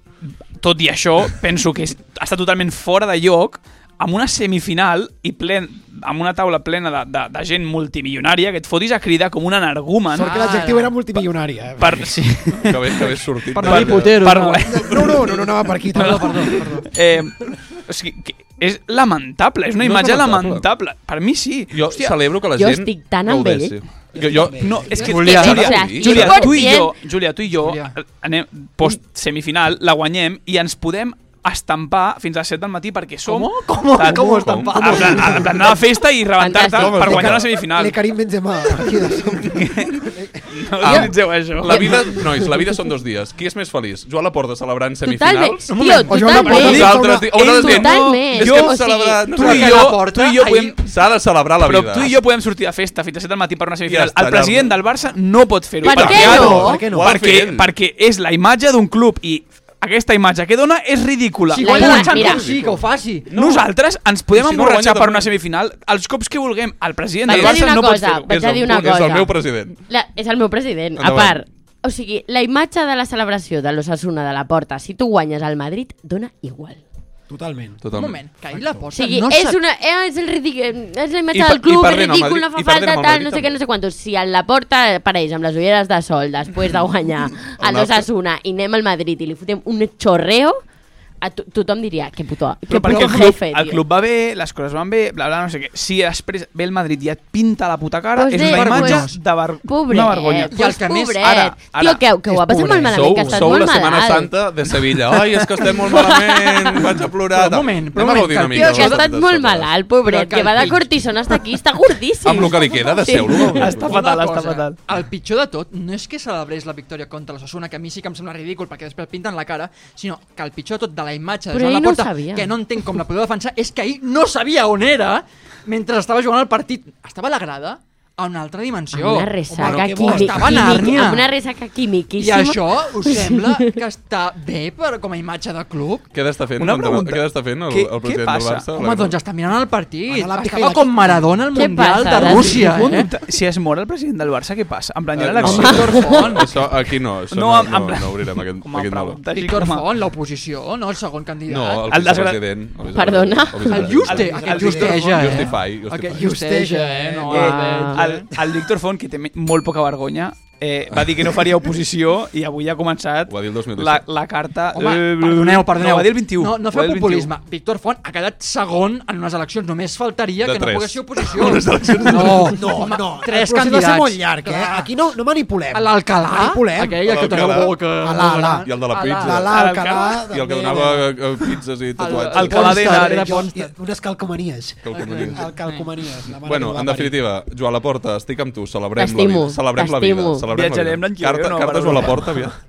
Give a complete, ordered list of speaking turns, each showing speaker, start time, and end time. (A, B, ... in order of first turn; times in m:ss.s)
0:00.6-0:10.3 A
0:10.1-0:12.2 B
0:10.1-0:10.9 C
0:11.8-0:15.4 A
0:12.6-0:14.3 D
0:13.5-0:14.9 C
0:14.6-0:16.6 B
0:15.9-0:16.9 C
0:15.9-0:22.2 A
0:19.8-0:20.6 D
0:21.7-0:26.6 D
0:22.5-0:23.8 E
0:24.1-0:25.2 B
0:24.6-0:38.0 A
0:25.0-0:25.7 C
0:25.1-0:26.9 E
0:27.5-0:27.9 C
0:33.2-0:35.4 C
0:34.0-0:35.7 D
0:35.1-0:35.4 B
0:36.4-0:37.0 E
0:36.7-0:37.5 D
0:37.0-0:41.1 B
0:39.2-0:42.1 A
0:40.8-0:45.7 D
0:45.0-0:46.9 E
0:45.7-0:47.4 B
0:45.8-0:46.7 C
0:46.4-0:50.0 D
0:46.4-0:48.8 A
0:47.5-0:49.2 E
0:49.3-0:50.8 A
0:49.4-0:50.8 C
0:50.8-0:52.2 D
0:51.6-1:02.5 A
0:53.9-0:54.7 D
0:55.8-0:56.8 E
0:55.8-0:57.7 D
0:56.1-0:57.2 B
1:01.5-1:03.3 C
1:01.6-1:02.4 E
1:02.2-1:03.6 D
1:03.3-1:08.4 A
1:04.3-1:05.3 D
1:07.2-1:09.3 E
1:07.3-1:07.8 D
1:08.3-1:09.8 D
1:09.8-1:16.8 E
1:11.0-1:11.4 D
1:17.3-1:17.8 B
1:17.8-1:18.2 D
1:17.9-1:19.6 C
1:18.5-1:18.9 B
1:18.9-1:30.6 E
1:21.3-1:23.5 D
1:27.5-1:28.1 D
1:31.2-1:33.8 E
1:32.7-1:40.6 A
1:38.1-1:39.1 E
1:38.4-1:39.2 C
1:39.6-1:44.3 E
1:40.5-1:41.4 C
1:41.2-1:42.0 A
1:42.2-1:43.3 B
1:42.7-1:49.7 D
1:45.9-1:46.9 E
1:47.3-1:49.1 C
1:48.5-1:53.7 E
1:50.0-1:51.4 C
1:52.2-1:54.0 D
1:53.5-1:54.8 A
1:53.8-2:11.3 C
2:01.5-2:02.5 E
2:08.9-2:13.7 E
2:09.5-2:11.0 B
2:12.2-2:16.1 C
2:16.1-2:19.2 D
2:16.6-2:18.7 A
2:18.7-2:23.1 C
2:20.1-2:21.4 B
2:21.5-2:22.8 E
2:22.4-2:26.5 A
2:25.1-2:29.2 D
2:25.4-2:26.6 C
2:25.7-2:26.1 E
2:27.3-2:29.8 A
2:29.3-2:31.9 C
2:31.5-2:36.2 D
2:31.9-2:32.4 A
2:32.9-2:33.9 E
2:33.7-2:38.3 C
2:34.0-2:35.3 A
2:34.1-2:35.5 B
2:36.1-2:37.4 B
2:37.3-2:47.3 A
2:37.3-2:38.0 E
2:43.3-2:44.0 D
2:44.7-2:54.9 C
2:50.4-2:52.6 D
2:52.2-3:01.3 B
2:55.7-2:59.5 C
2:57.0-2:57.8 D
2:58.6-2:59.5 D
2:59.5-3:00.2 A
3:00.2-3:02.8 D
3:02.0-3:03.7 C
3:02.1-3:03.5 A
3:02.4-3:07.2 B
3:04.8-3:05.5 D
3:04.9-3:05.8 C
3:06.4-3:12.6 D
3:09.0-3:10.4 E
3:10.5-3:12.5 A